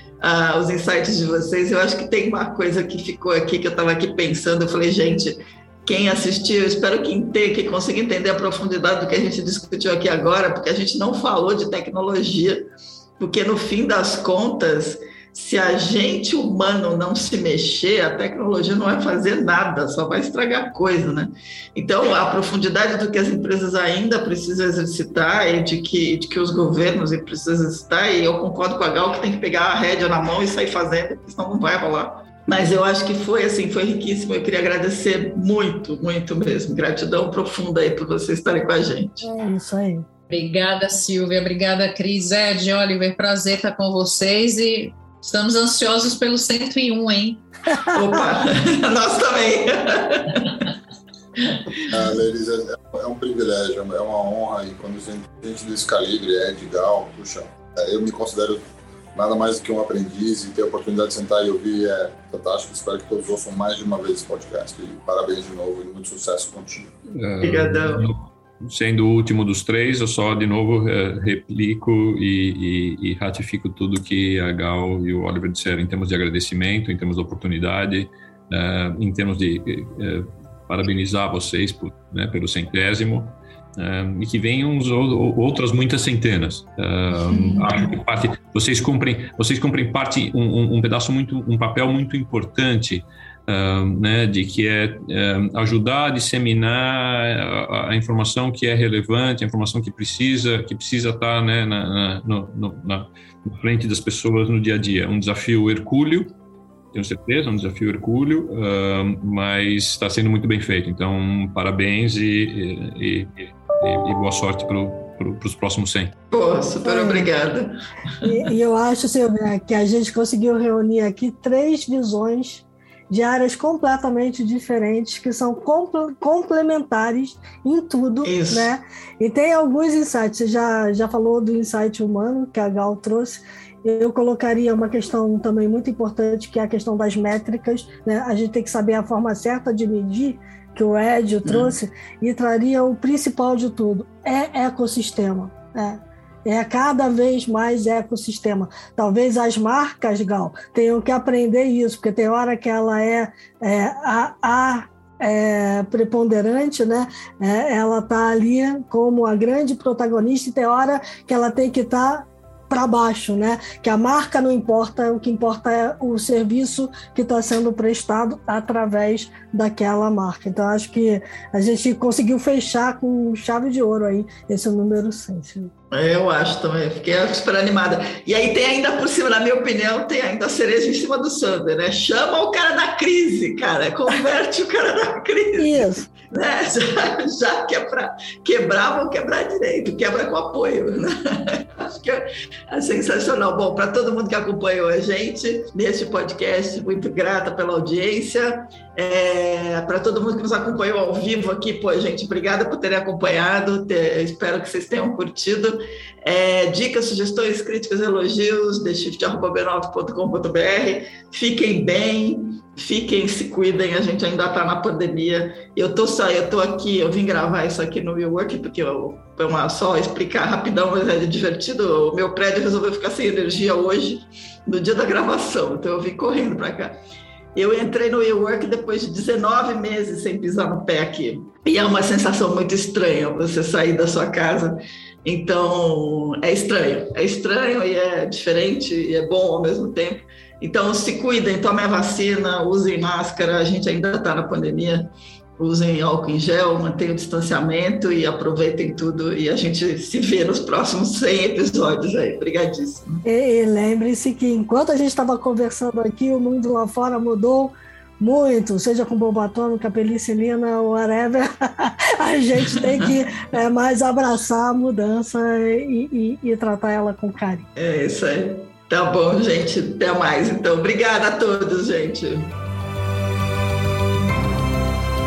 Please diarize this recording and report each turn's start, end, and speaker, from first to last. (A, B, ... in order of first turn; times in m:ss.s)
0:00.2-0:39.2 A
0:39.2-0:40.0 B
0:40.3-0:47.4 C
0:47.9-0:50.7 A
0:51.9-1:06.9 D
1:07.1-1:46.3 E
1:07.4-1:08.1 A
1:27.3-1:27.7 A
1:46.9-1:56.1 E
1:56.3-1:58.4 A
1:56.8-1:57.3 B
1:58.2-2:55.7 B
2:08.2-2:08.7 A
2:21.4-2:21.7 A
2:55.9-3:47.0 A
3:05.6-3:06.1 B
3:47.6-4:13.2 A
4:13.2-4:27.7 B
4:22.7-4:23.1 A
4:27.8-4:32.5 A